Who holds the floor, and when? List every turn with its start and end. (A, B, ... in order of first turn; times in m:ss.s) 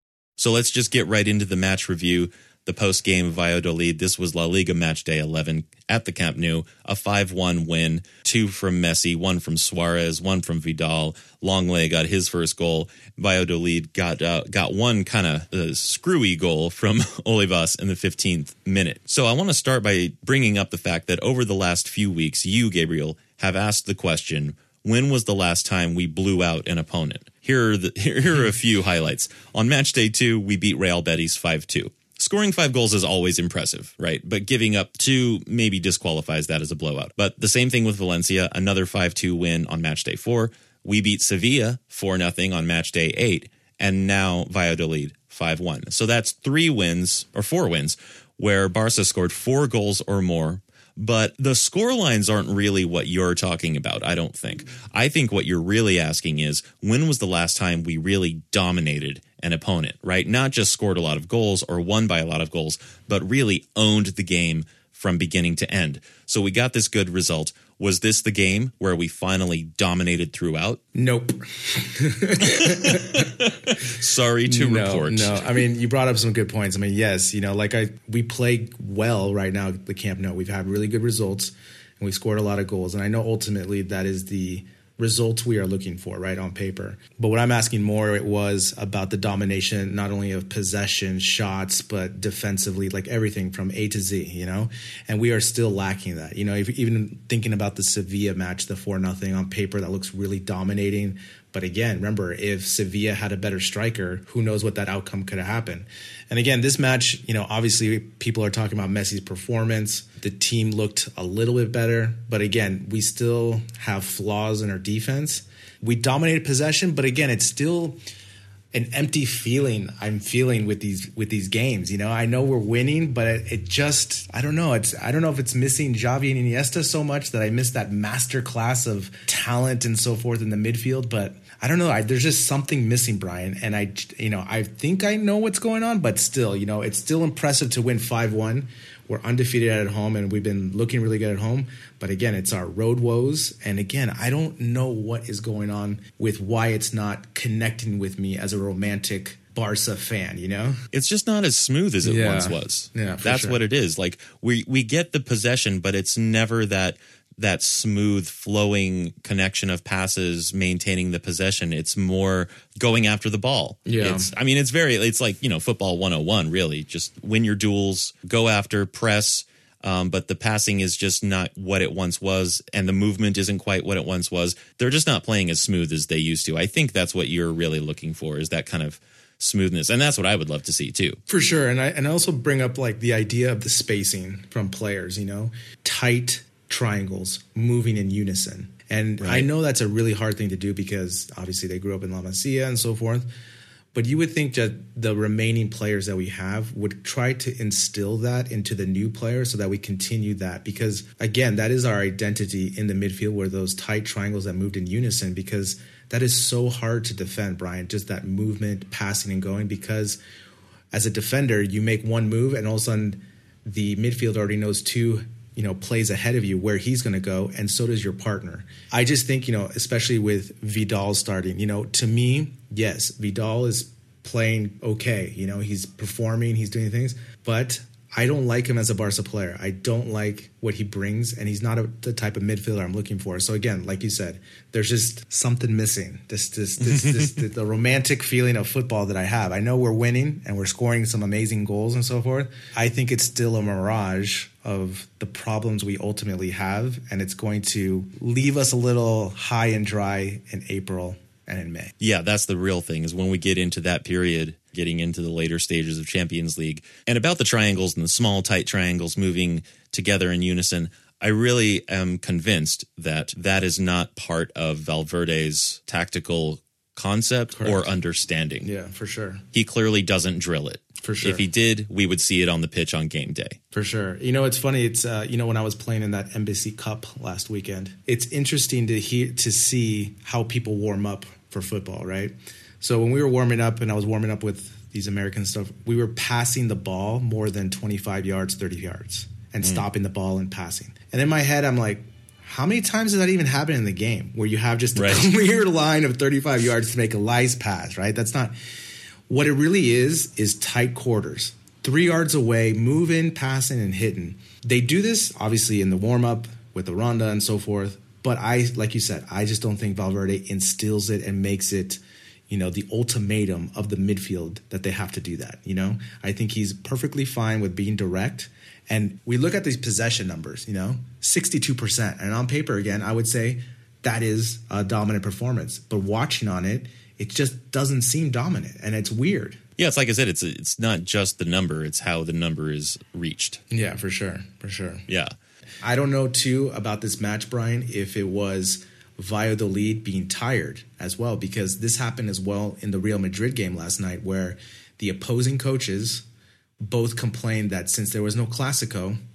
0:00.4-1:10.8 A
1:11.0-1:13.3 B
1:12.4-1:15.4 A
1:14.5-1:58.0 B
1:58.7-2:30.8 B
2:30.9-3:01.2 A
2:32.0-2:33.6 B
2:43.9-2:44.3 B
3:01.3-3:13.3 B
3:09.2-3:09.5 A
3:13.9-3:30.2 B
3:30.9-4:11.9 B
4:12.0-4:28.7 A
4:27.6-4:27.9 B
4:28.6-4:29.4 B
4:29.5-4:33.6 A
4:31.0-4:31.4 B
4:33.7-4:58.6 B
4:55.0-4:55.3 A
4:59.3-5:29.6 B
5:29.8-5:33.6 A
5:33.7-5:35.0 B
5:35.1-5:35.3 A
5:35.8-5:46.2 B
5:46.8-5:49.2 B